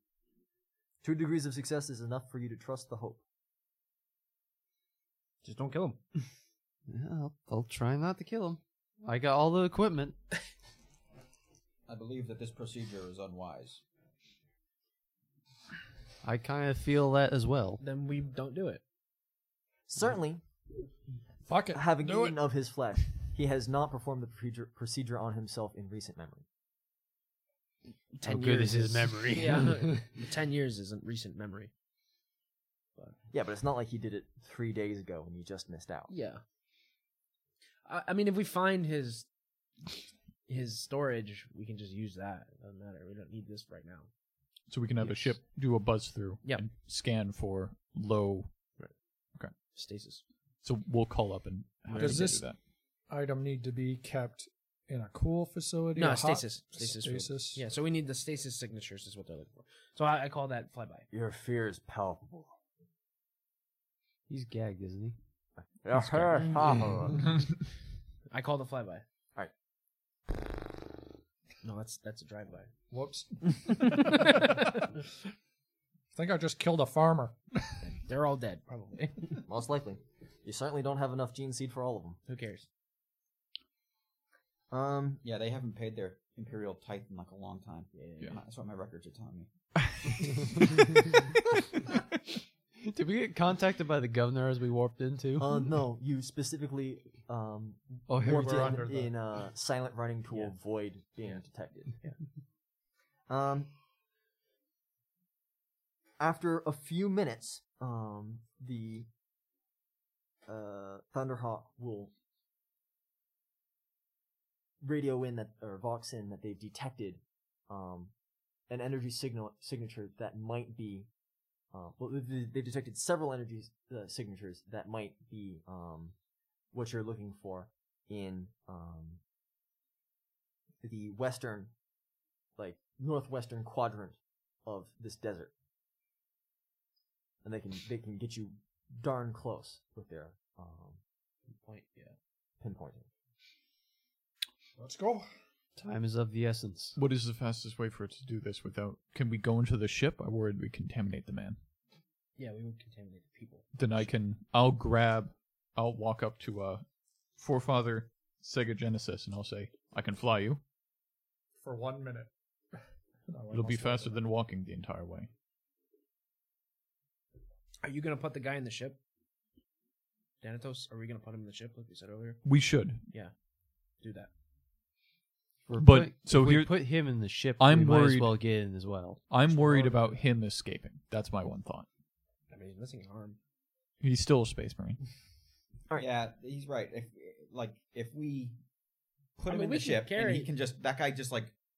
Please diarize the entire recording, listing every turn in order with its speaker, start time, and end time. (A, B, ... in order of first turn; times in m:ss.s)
0:01.0-0:03.2 A
0:05.4-0:06.0 B
0:06.9-0:10.2 C
0:11.9-0:13.8 D
0:16.2-0:17.8 C
0:17.8-0:18.8 B
0:19.9-0:20.4 A
0:21.4-0:22.4 E
0:21.7-0:26.4 A
0:28.1-0:31.7 B
0:28.2-0:30.1 C
0:33.3-0:36.1 A
0:36.1-0:36.4 B
0:37.9-0:39.3 B
0:40.5-0:44.1 B
0:44.7-0:48.6 F
0:45.0-0:45.3 B
0:49.7-0:50.2 B
0:50.6-0:52.6 F
0:51.9-0:52.2 B
0:52.0-0:52.5 E
0:53.1-0:57.6 E
0:56.0-1:01.1 B
1:01.1-1:02.6 A
1:04.3-1:05.2 C
1:05.6-1:07.2 A
1:08.3-1:09.0 B
1:11.6-1:12.7 B
1:12.9-1:14.5 E
1:16.2-1:17.9 E
1:17.8-1:19.4 B
1:19.5-1:22.2 A
1:22.3-1:22.7 B
1:24.7-1:25.2 A
1:25.2-1:29.5 D
1:27.9-1:28.4 B
1:32.8-1:35.6 C
1:35.4-1:42.0 A
1:38.1-1:38.8 C
1:38.1-1:39.2 E
1:43.3-1:43.7 A
1:46.2-1:49.1 A
1:50.5-1:52.1 A
1:54.8-1:58.1 A
1:58.7-2:01.1 A
2:01.7-2:06.2 A
2:06.7-2:09.2 A
2:10.8-2:11.7 A
2:12.6-2:15.5 A
2:17.4-2:21.0 A
2:21.5-2:22.2 B
2:22.6-2:23.1 A
2:24.8-2:25.3 E
2:25.8-2:27.0 C
2:27.0-2:31.6 F
2:32.4-2:33.7 B
2:33.8-2:36.8 F
2:37.4-2:40.6 F
2:41.6-2:42.3 E
2:43.3-2:44.2 E
2:43.5-2:45.3 F
2:47.8-2:49.0 B
2:50.4-2:52.5 B
2:52.4-2:53.1 F
2:53.1-2:53.4 B
2:54.0-2:54.3 B
2:55.7-2:59.2 C
2:55.8-2:56.8 F
2:57.6-2:58.4 F
2:59.3-3:01.9 F
2:59.5-3:00.3 B
3:02.5-3:03.4 B
3:04.0-3:05.0 F
3:06.0-3:08.6 D
3:09.4-3:11.5 D
3:09.5-3:10.5 B